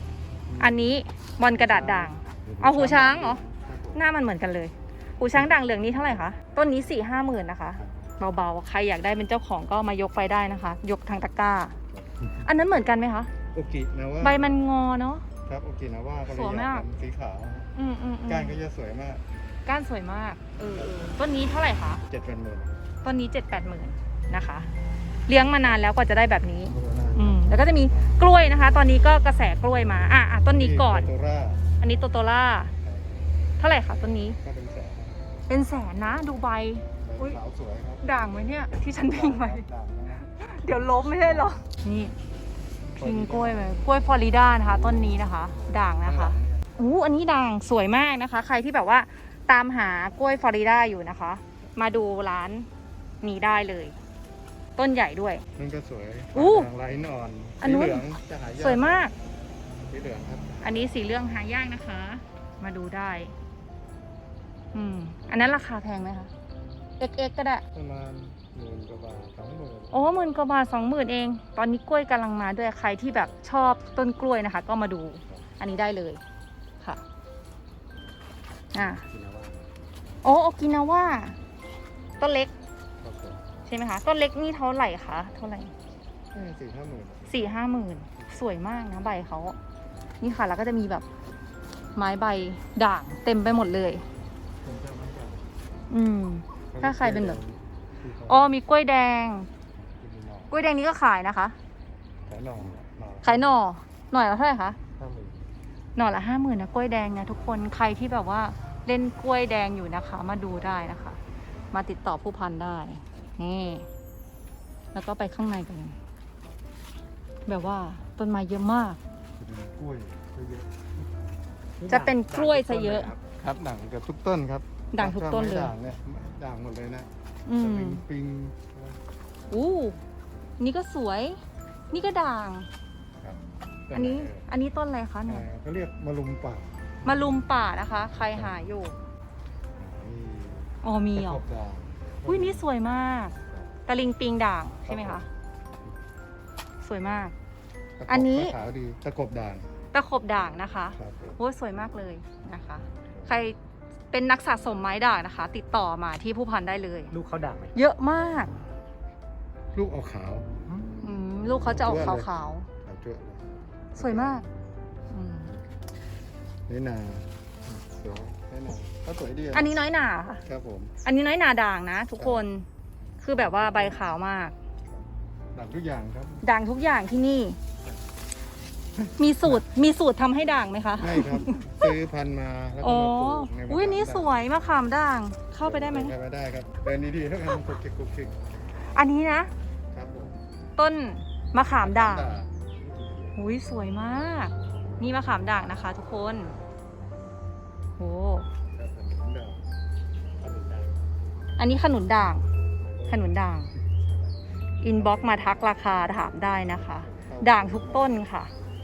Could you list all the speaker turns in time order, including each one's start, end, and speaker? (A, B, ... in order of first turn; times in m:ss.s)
0:00.5-0:01.0 A
0:00.6-0:03.4 B
0:01.5-0:04.0 A
0:03.9-0:11.8 B
0:05.3-0:06.3 A
0:11.9-0:12.7 A
0:12.4-0:13.3 B
0:13.5-0:14.6 A
0:14.2-0:15.2 B
0:15.5-0:17.7 A
0:16.3-0:16.8 B
0:17.8-0:18.6 B
0:18.3-0:19.2 A
0:19.7-0:22.0 B
0:22.1-0:22.8 A
0:23.0-0:24.7 B
0:25.3-0:31.1 B
0:25.4-0:25.8 A
0:26.7-0:28.2 A
0:30.5-0:31.6 A
0:31.8-0:32.7 B
0:32.8-0:33.2 A
0:33.6-0:34.4 B
0:34.4-0:35.2 A
0:35.5-0:37.4 B
0:37.0-0:38.0 A
0:38.0-0:39.7 B
0:38.9-0:42.2 A
0:40.2-0:42.1 B
0:43.0-0:43.8 A
0:43.0-0:52.7 B
0:44.6-0:46.7 A
0:53.2-0:54.0 B
0:54.8-0:55.4 B
0:55.6-0:59.1 A
0:56.4-0:56.7 B
0:57.6-0:58.1 B
0:58.6-0:59.1 B
0:59.9-1:01.0 A
1:00.6-1:03.3 B
1:04.7-1:06.3 B
1:07.0-1:07.6 B
1:07.7-1:10.1 A
1:09.9-1:16.2 B
1:18.7-1:19.0 B
1:18.8-1:19.7 A
1:20.2-1:21.4 B
1:22.2-1:22.5 B
1:23.0-1:23.4 A
1:23.7-1:25.7 B
1:26.3-1:27.6 A
1:27.3-1:29.6 B
1:28.2-1:28.4 A
1:30.2-1:31.0 B
1:32.0-1:34.0 B
1:34.6-1:35.5 A
1:35.9-1:37.4 B
1:36.7-1:38.5 A
1:38.3-1:39.5 B
1:39.8-1:40.5 A
1:40.5-1:41.6 B
1:42.3-1:43.6 A
1:43.2-1:44.8 B
1:45.0-1:45.4 A
1:46.0-1:51.2 B
1:51.7-1:53.9 B
1:54.9-1:56.0 B
1:57.5-1:59.0 B
1:59.4-2:01.0 A
2:01.8-2:03.2 C
2:01.9-2:03.1 B
2:03.3-2:09.0 A
2:04.9-2:05.7 B
2:07.5-2:08.0 B
2:09.5-2:10.0 B
2:10.6-2:11.4 B
2:11.9-2:12.7 B
2:13.2-2:14.5 A
2:13.9-2:15.5 B
2:15.3-2:17.4 A
2:17.0-2:19.0 B
2:18.3-2:18.6 A
2:19.8-2:22.7 A
2:20.8-2:21.4 B
2:22.2-2:23.4 B
2:23.5-2:23.7 A
2:23.9-2:25.3 B
2:24.8-2:25.3 A
2:26.8-2:27.3 B
2:28.0-2:29.7 A
2:28.1-2:28.6 B
2:29.9-2:33.6 B
2:31.0-2:31.4 A
2:34.1-2:37.2 B
2:37.1-2:37.8 C
2:37.8-2:38.5 B
2:39.7-2:41.0 A
2:41.0-2:42.7 B
2:41.6-2:42.3 A
2:42.8-2:44.4 A
2:44.0-2:44.5 B
2:45.1-2:45.5 B
2:46.7-2:49.7 A
2:49.5-2:50.4 B
2:50.4-2:50.9 A
2:51.0-2:52.7 B
2:52.2-2:52.5 A
2:53.0-2:54.0 A
2:53.2-2:54.5 B
2:54.9-2:56.4 A
2:56.4-2:57.6 B
2:59.0-2:59.6 A
2:59.2-3:02.0 B
3:01.0-3:04.4 A
3:02.8-3:06.1 B
3:05.6-3:08.4 A
3:08.9-3:09.5 B
3:09.9-3:10.4 A
3:10.8-3:12.4 B
3:11.8-3:13.4 A
3:13.4-3:16.6 B
3:18.0-3:18.5 B
3:18.7-3:19.7 A
3:20.4-3:21.1 A
3:21.6-3:22.4 B
3:22.8-3:26.3 A
3:23.1-3:23.7 B
3:24.8-3:28.5 B
3:27.0-3:28.2 A